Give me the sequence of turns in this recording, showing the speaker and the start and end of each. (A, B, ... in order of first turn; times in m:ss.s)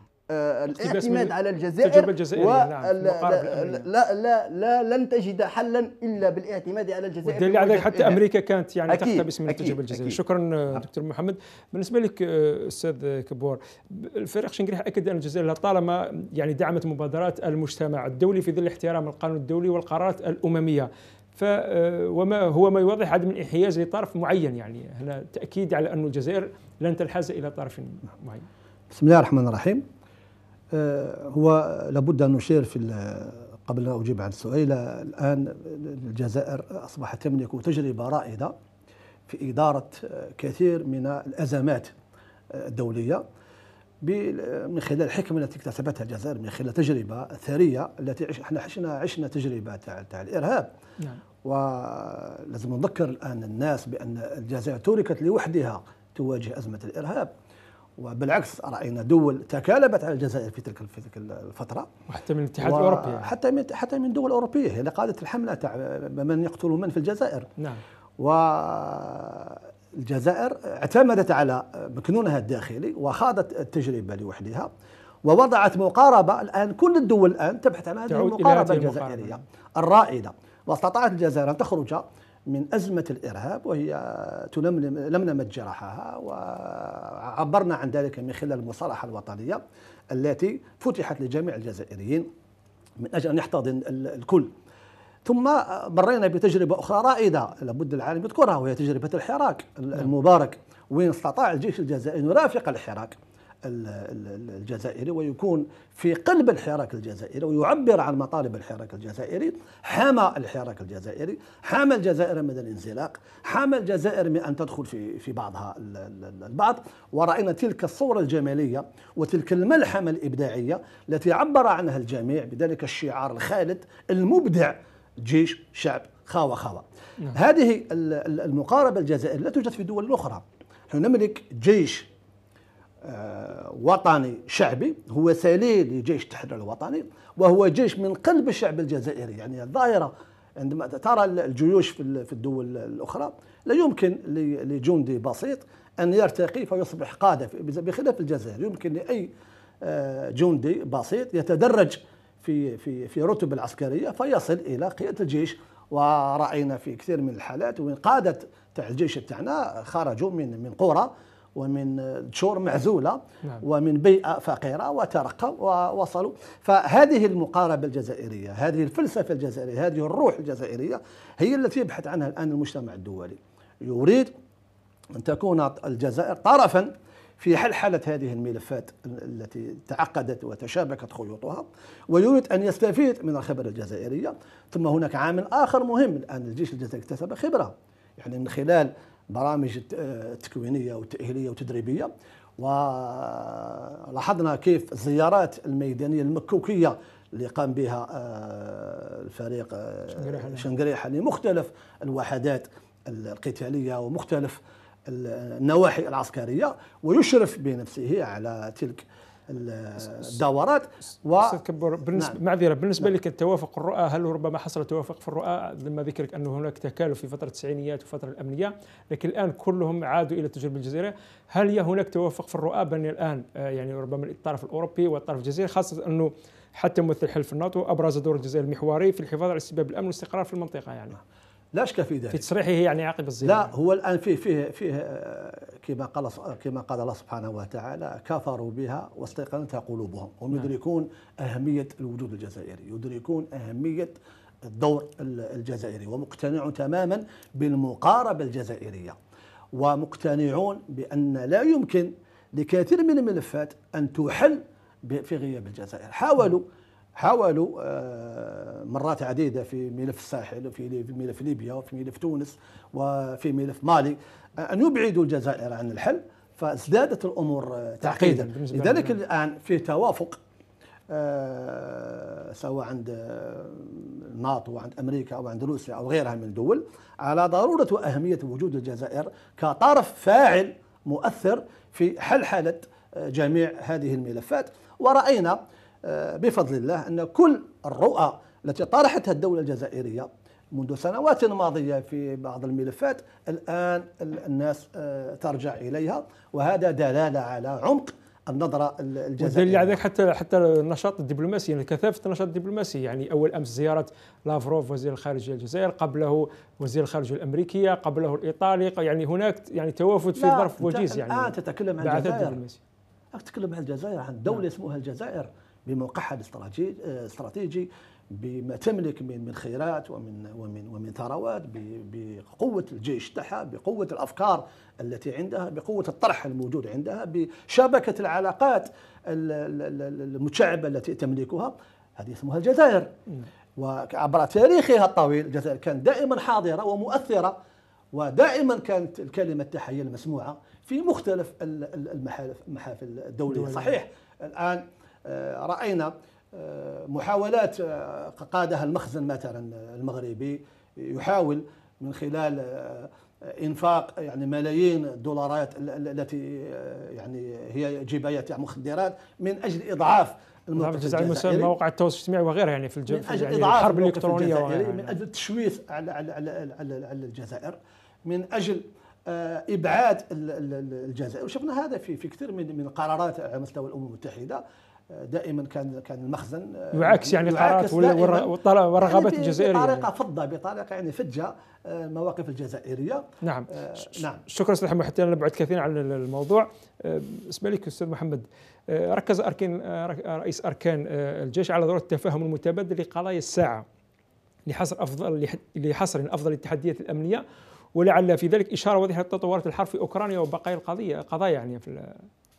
0:00.3-0:08.2 A
0:00.7-0:03.8 B
0:07.2-0:28.4 B
0:08.9-0:10.2 A
0:28.9-0:29.8 C
0:30.7-0:38.5 C
0:39.3-0:41.9 C
0:42.5-0:43.2 C
0:44.0-0:50.7 C
0:51.4-0:57.3 C
0:58.0-1:01.9 C
1:02.1-1:03.3 B
1:02.6-1:07.5 C
1:08.2-1:14.7 C
1:15.2-1:32.3 C
1:18.1-1:19.4 B
1:33.0-1:34.5 C
1:35.2-2:12.1 C
2:13.0-2:29.3 C
2:29.8-2:54.3 C
2:55.1-3:32.4 C
3:20.1-3:20.7 B
3:30.0-3:30.3 B
3:31.4-3:51.2 B
3:51.7-3:52.4 C
3:52.3-3:53.7 B
3:53.4-4:09.2 C
4:09.7-4:16.6 C
4:17.2-4:30.4 C
4:28.0-4:29.2 B
4:31.1-5:00.0 C
4:59.4-5:12.8 B
5:10.4-5:12.6 C
5:13.3-5:33.1 C
5:33.8-5:37.5 C
5:38.1-6:01.7 C
5:43.5-5:44.0 B
6:00.8-6:05.1 B
6:03.1-6:24.4 C
6:16.9-6:20.1 B
6:23.4-6:23.7 B
6:24.5-6:33.8 B
6:34.7-6:37.4 B
6:38.0-6:42.2 B